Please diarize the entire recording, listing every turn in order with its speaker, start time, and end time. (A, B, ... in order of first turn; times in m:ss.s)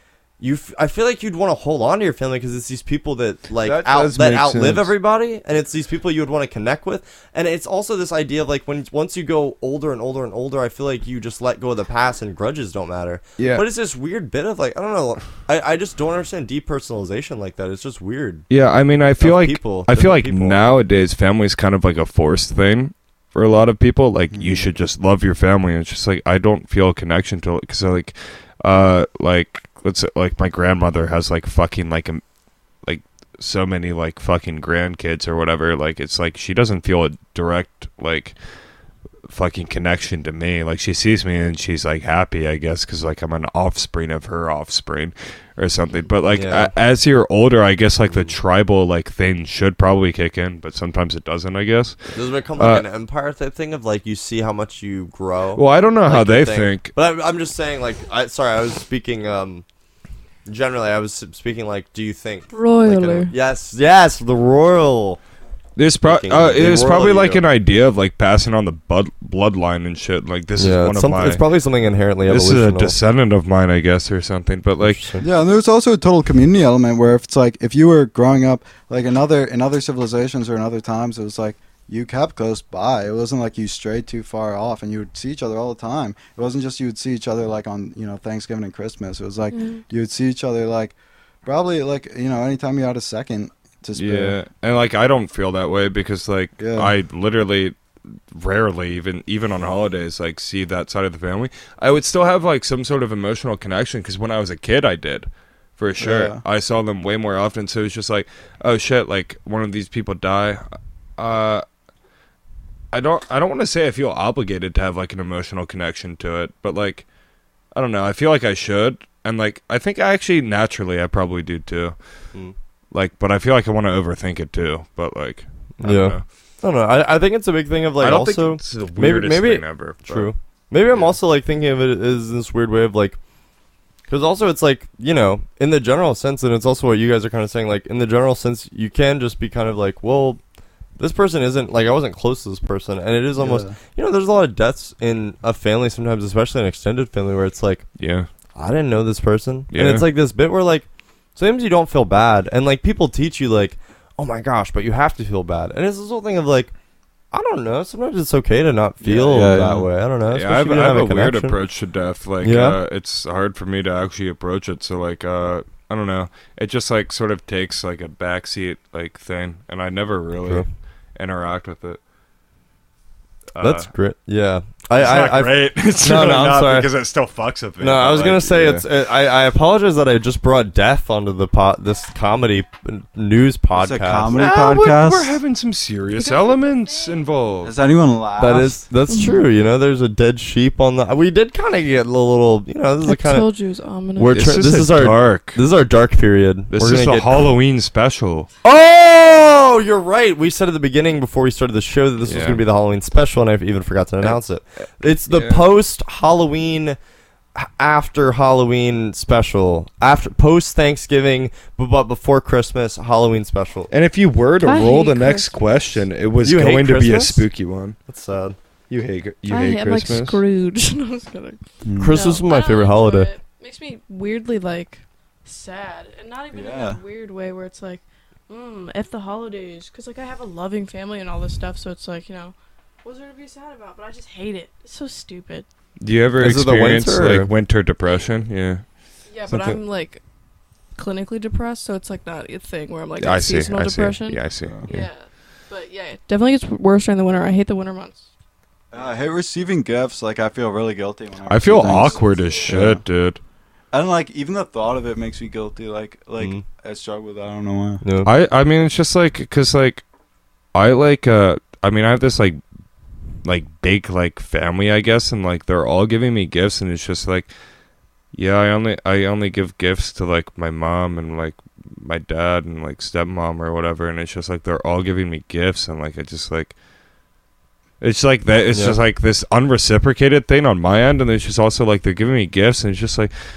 0:00.4-0:18.4 A
0:03.6-0:04.9 B
0:13.4-0:13.6 B
0:18.5-0:32.2 B
0:19.2-0:20.6 A
0:24.3-0:24.7 C
0:32.8-0:38.4 B
0:39.3-0:52.0 B
0:46.3-0:46.7 A
0:52.1-0:59.6 A
0:52.6-0:52.8 B
0:55.6-0:56.9 B
1:00.4-1:05.2 A
1:02.5-1:03.3 D
1:05.8-1:11.4 B
1:06.0-1:07.4 A
1:10.6-1:13.0 A
1:12.2-1:15.0 B
1:14.8-1:15.3 A
1:15.2-1:30.9 C
1:29.5-1:29.8 D
1:31.4-1:34.3 C
1:34.0-1:37.8 B
1:36.6-1:36.9 C
1:38.3-1:50.6 B
1:46.0-1:46.4 C
1:51.2-1:51.6 B
1:52.9-1:57.0 B
1:57.7-2:02.0 B
2:02.9-2:06.2 B
2:05.8-2:13.2 A
2:08.0-2:10.3 B
2:14.1-2:20.4 A
2:21.0-2:27.8 A
2:23.4-2:23.7 C
2:28.0-2:28.3 B
2:28.6-2:36.7 A
2:29.7-2:30.1 B
2:37.3-2:41.6 A
2:39.0-2:39.9 C
2:40.3-2:52.0 B
2:42.4-2:42.8 A
2:53.5-2:53.9 B
2:53.6-2:56.9 A
2:54.9-2:58.8 B
2:57.8-3:04.3 A
3:03.7-3:05.4 C
3:04.3-3:07.7 B
3:07.6-3:08.8 C
3:08.4-3:13.5 A
3:09.1-3:09.4 D
3:13.0-3:14.5 D
3:14.2-3:17.5 A
3:14.3-3:15.6 B
3:16.7-3:18.5 B
3:18.6-3:27.0 A
3:22.2-3:22.6 B
3:25.3-3:25.6 B
3:27.6-3:33.9 A
3:33.9-3:38.0 B
3:34.6-3:35.6 D
3:36.4-3:37.4 A
3:38.1-3:38.6 A
3:38.9-3:40.4 B
3:39.4-3:55.6 D
3:41.8-3:42.3 C
3:42.0-3:43.3 A
3:46.5-3:47.0 C
3:56.0-3:58.8 B
3:56.4-3:57.5 A
3:59.3-4:00.2 D
3:59.5-3:59.8 B
4:01.0-4:08.3 D
4:03.2-4:05.0 B
4:04.6-4:04.9 C
4:08.9-4:13.0 C
4:11.5-4:13.4 B
4:12.0-4:12.7 D
4:13.9-4:18.0 C
4:18.0-4:18.3 A
4:18.2-4:20.0 B
4:20.7-4:22.6 B
4:23.4-4:27.5 B
4:28.3-4:36.7 B
4:38.0-4:43.3 B